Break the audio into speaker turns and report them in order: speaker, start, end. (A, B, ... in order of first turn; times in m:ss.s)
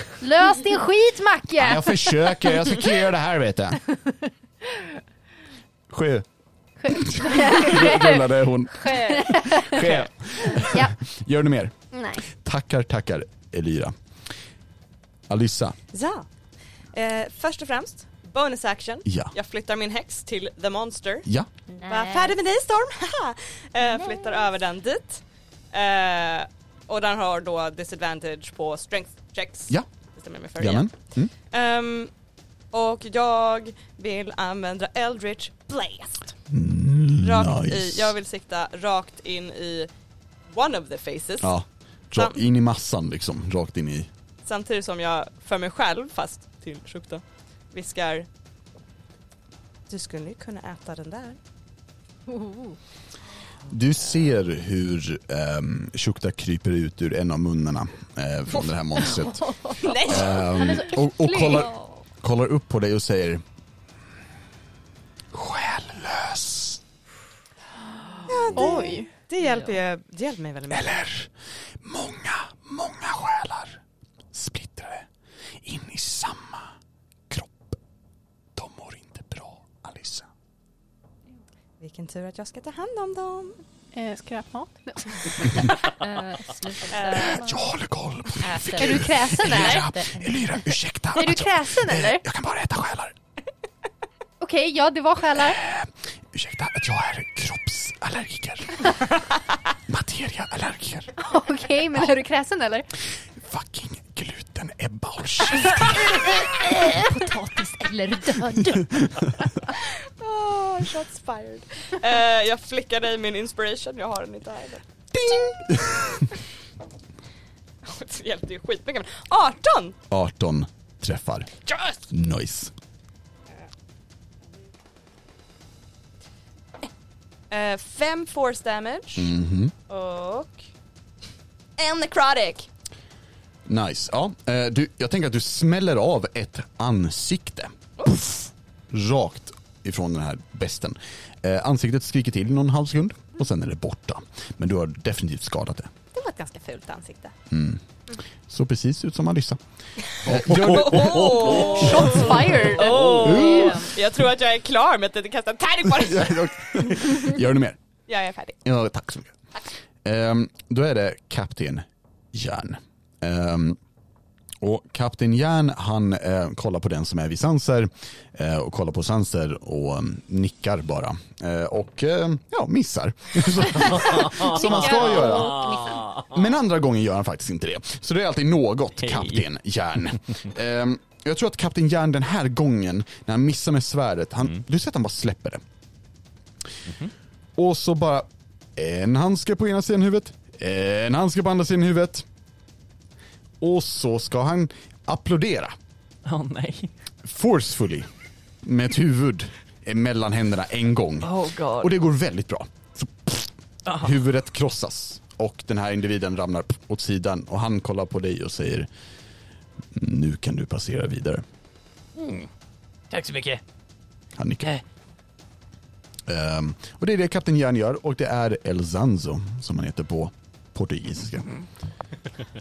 0:00.2-0:02.6 A
0:01.6-0:03.8 B
0:05.9-0:06.2 B
0:06.8-0:08.2 A
0:06.9-0:13.9 B
0:08.7-0:10.0 C
0:08.9-0:09.8 A
0:10.5-0:11.0 A
0:11.9-0:12.2 A
0:15.3-0:15.8 B
0:15.9-0:16.2 D
0:16.9-0:21.3 D
0:19.0-0:19.3 B
0:21.7-0:22.4 C
0:21.8-0:31.0 D
0:23.8-0:24.5 C
0:30.6-0:31.3 B
0:31.5-0:32.1 D
0:32.7-0:36.3 D
0:36.5-0:38.1 B
0:37.2-0:39.9 D
0:40.5-0:41.5 D
0:41.4-0:44.1 B
0:44.4-0:48.3 D
0:49.9-0:51.4 D
0:52.3-0:52.7 C
0:53.7-1:03.4 B
0:59.8-1:00.5 D
1:00.6-1:01.6 A
1:01.3-1:01.8 C
1:05.3-1:06.8 B
1:08.3-1:11.0 D
1:08.5-1:09.1 A
1:09.4-1:09.7 C
1:10.7-1:11.3 B
1:11.8-1:13.8 B
1:14.3-1:15.1 B
1:15.6-1:16.7 B
1:17.3-1:17.8 B
1:18.5-1:20.3 B
1:21.8-1:23.6 D
1:23.9-1:25.7 A
1:25.8-1:27.6 C
1:26.9-1:27.4 D
1:27.1-1:33.1 B
1:28.4-1:30.4 C
1:28.8-1:29.9 A
1:31.1-1:32.2 A
1:34.4-1:35.6 A
1:35.3-1:39.1 B
1:39.9-1:41.1 B
1:41.2-1:42.9 A
1:43.4-1:46.8 B
1:46.9-1:49.1 C
1:48.8-1:49.3 B
1:49.7-1:54.8 D
1:55.1-1:56.3 B
1:57.8-2:00.0 D
2:00.1-2:01.6 B
2:02.1-2:02.7 B
2:07.5-2:09.3 D
2:09.2-2:09.7 B
2:09.9-2:10.6 D
2:11.8-2:12.7 D
2:13.6-2:25.9 B
2:26.1-2:27.3 D
2:27.5-2:27.8 B
2:28.5-2:29.6 B
2:30.2-2:33.9 B
2:30.2-2:37.1 D
2:31.5-2:33.8 A
2:33.2-2:33.8 C
2:35.8-2:37.8 B
2:38.1-2:38.6 D
2:38.6-2:39.4 B
2:40.0-2:43.8 B
2:44.6-3:05.6 B
2:54.2-2:56.3 E
2:54.4-2:56.0 C
3:07.6-3:12.3 B
3:13.6-3:15.7 B
3:16.2-3:16.9 E
3:17.2-3:18.1 B
3:18.6-3:28.9 B
3:21.2-3:21.9 E
3:23.8-3:24.2 E
3:29.9-3:31.4 B
3:32.1-3:32.5 E
3:33.1-3:33.6 E
3:34.4-3:34.7 B
3:36.2-3:41.5 B